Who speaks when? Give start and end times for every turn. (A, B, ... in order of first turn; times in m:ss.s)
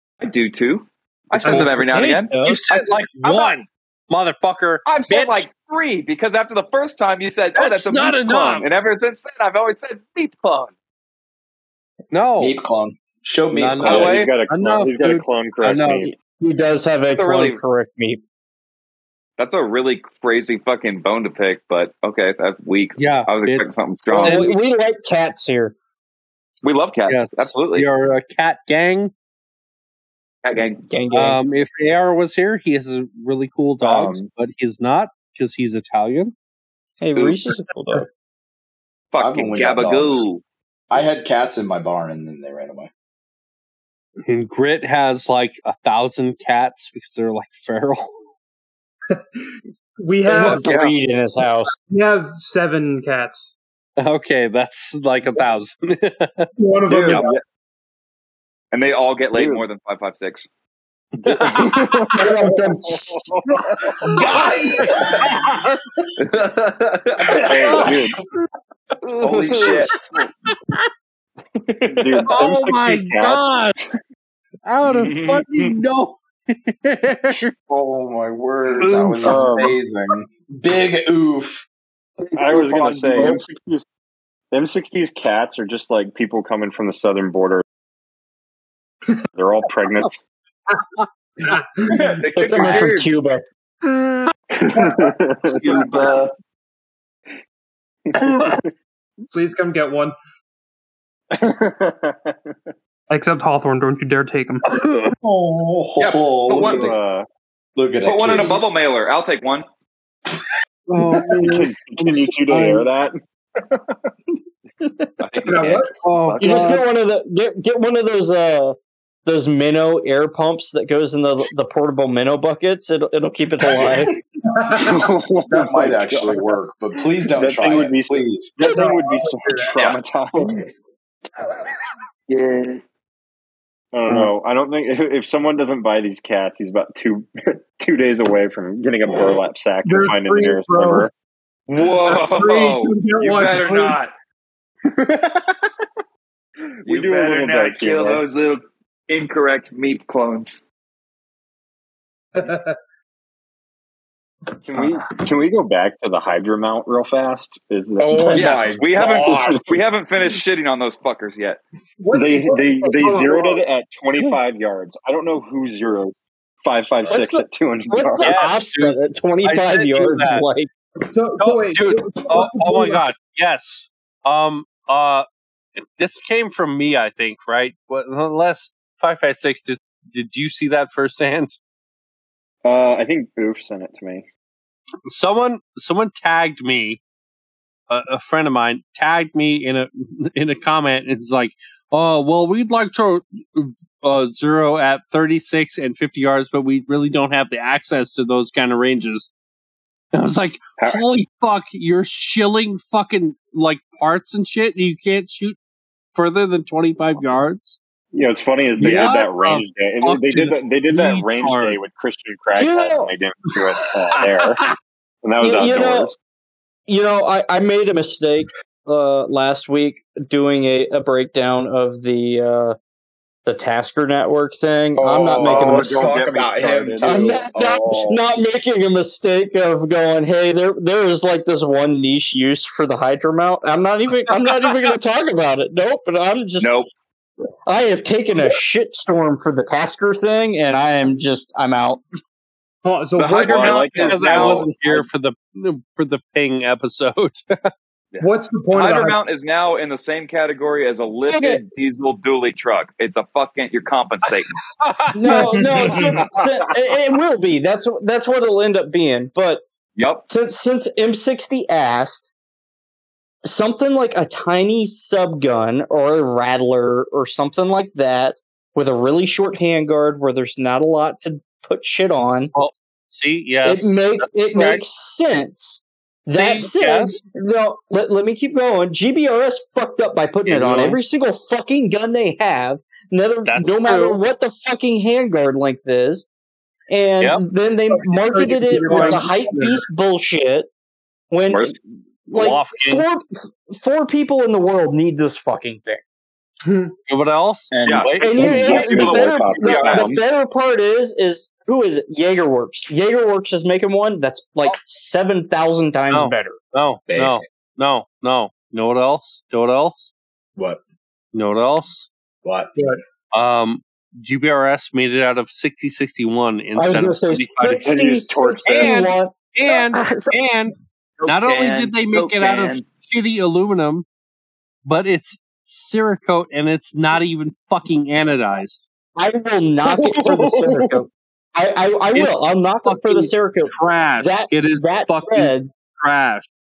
0:00.2-0:03.6 A
0:01.4-0:01.8 B
0:01.4-0:02.6 C
0:02.4-0:05.5 D
0:04.8-0:10.7 A
0:07.6-0:08.7 D
0:12.1-0:12.6 D
0:12.4-0:14.3 E
0:13.5-0:16.1 D
0:13.8-0:16.1 F
0:13.9-0:14.3 A
0:16.4-0:18.2 C
0:17.1-0:17.6 A
0:19.4-0:24.6 A
0:23.0-0:23.6 D
0:24.1-0:25.8 C
0:24.2-0:24.6 D
0:26.6-0:27.9 A
0:27.1-0:29.1 D
0:30.4-0:30.8 A
0:30.9-0:31.4 C
0:31.1-0:36.3 D
0:33.8-0:34.3 F
0:37.0-0:38.1 C
0:39.1-0:40.4 A
0:39.2-0:40.2 E
0:40.9-0:42.9 E
0:44.2-0:48.1 D
0:49.1-0:49.4 B
0:50.0-0:50.8 B
0:50.3-0:51.7 C
0:50.4-0:51.0 A
0:51.9-0:53.6 B
0:54.0-0:56.5 D
0:56.6-0:57.4 B
0:56.9-0:57.4 A
0:58.7-1:00.5 A
0:59.3-0:59.6 F
1:01.2-1:03.9 F
1:01.2-1:02.2 D
1:02.1-1:03.4 C
1:04.2-1:05.3 E
1:04.8-1:05.7 D
1:06.2-1:07.9 A
1:07.3-1:08.0 E
1:07.5-1:08.1 F
1:09.0-1:09.8 A
1:09.2-1:10.0 E
1:11.9-1:13.7 F
1:12.3-1:13.8 D
1:14.6-1:17.5 D
1:14.8-1:15.8 A
1:17.7-1:21.6 E
1:18.8-1:19.5 D
1:19.2-1:19.8 F
1:22.4-1:23.8 F
1:22.7-1:23.4 E
1:24.5-1:27.6 F
1:29.4-1:30.2 F
1:31.4-1:32.1 B
1:32.0-1:33.1 A
1:32.3-1:33.4 C
1:34.6-1:36.3 F
1:35.6-1:36.1 D
1:39.3-1:40.2 B
1:41.3-1:42.6 F
1:43.1-1:44.6 B
1:44.7-1:45.2 D
1:45.2-1:47.0 E
1:46.0-1:46.9 A
1:46.6-1:47.3 F
1:47.8-1:48.7 E
1:48.0-1:49.7 A
1:50.9-1:51.7 D
1:51.4-1:54.0 F
1:52.5-1:52.8 D
1:54.8-1:55.1 C
1:55.2-1:56.5 A
1:55.4-1:56.0 B
1:56.0-1:56.8 D
1:56.4-2:04.1 C
2:04.5-2:05.1 B
2:04.8-2:06.6 F
2:05.5-2:08.6 E
2:07.2-2:10.6 F
2:08.6-2:09.9 B
2:12.3-2:12.8 A
2:13.9-2:21.1 F
2:19.8-2:21.1 B
2:21.7-2:24.1 A
2:21.8-2:24.0 B
2:25.0-2:25.5 F
2:26.8-2:28.2 F
2:26.9-2:30.7 A
2:32.4-2:32.8 B
2:34.6-2:38.8 F
2:38.0-2:39.7 E
2:38.3-2:41.6 A
2:42.0-2:43.6 B
2:42.1-2:48.4 F
2:47.1-2:50.7 C
2:48.2-2:50.5 D
2:51.1-2:53.0 B
2:51.4-2:55.3 D
2:56.0-3:01.6 D
3:02.6-3:04.3 F
3:05.1-3:07.0 D
3:07.9-3:19.3 D
3:20.1-3:25.6 D
3:26.1-3:27.8 D
3:28.1-3:34.6 F
3:28.8-3:31.8 D
3:32.6-3:33.1 C
3:33.9-3:34.7 D
3:35.2-3:36.2 F
3:35.4-3:36.1 C
3:36.9-3:42.8 C
3:43.5-3:45.9 C
3:45.0-3:48.2 E
3:45.4-3:47.4 F
3:47.0-3:56.7 C
3:56.6-3:56.9 A
3:57.7-4:02.0 C
4:02.8-4:04.6 B
4:03.2-4:04.7 A
4:03.5-4:05.0 F
4:04.1-4:07.7 D
4:08.1-4:14.5 A
4:08.2-4:09.2 B
4:11.3-4:11.6 C
4:14.3-4:16.1 D
4:15.1-4:19.6 C
4:20.0-4:20.3 A
4:20.3-4:22.3 C
4:23.4-4:32.5 C
4:32.5-4:34.8 D
4:33.6-4:46.3 C
4:36.3-4:37.2 D
4:40.5-4:41.0 D
4:43.4-4:44.2 D
4:46.9-4:50.7 C
4:47.9-4:49.8 B
4:48.9-4:49.7 D
4:51.3-4:56.0 C
4:51.5-4:51.8 A
4:52.3-4:53.1 D
4:56.6-4:57.0 B
4:57.1-4:58.6 D
4:57.8-4:58.1 E
4:57.8-5:00.2 A
4:58.2-5:06.6 C
4:58.3-5:00.2 F
5:06.1-5:10.1 D
5:07.1-5:07.4 E
5:10.6-5:10.8 E
5:11.3-5:12.1 D
5:12.4-5:12.7 E
5:13.3-5:18.0 D
5:16.8-5:20.4 C
5:17.8-5:19.1 F
5:18.6-5:20.7 D
5:21.2-5:22.9 A
5:21.3-5:24.1 D
5:24.8-5:28.9 D
5:29.2-5:35.7 C
5:30.2-5:30.6 F
5:32.1-5:36.5 D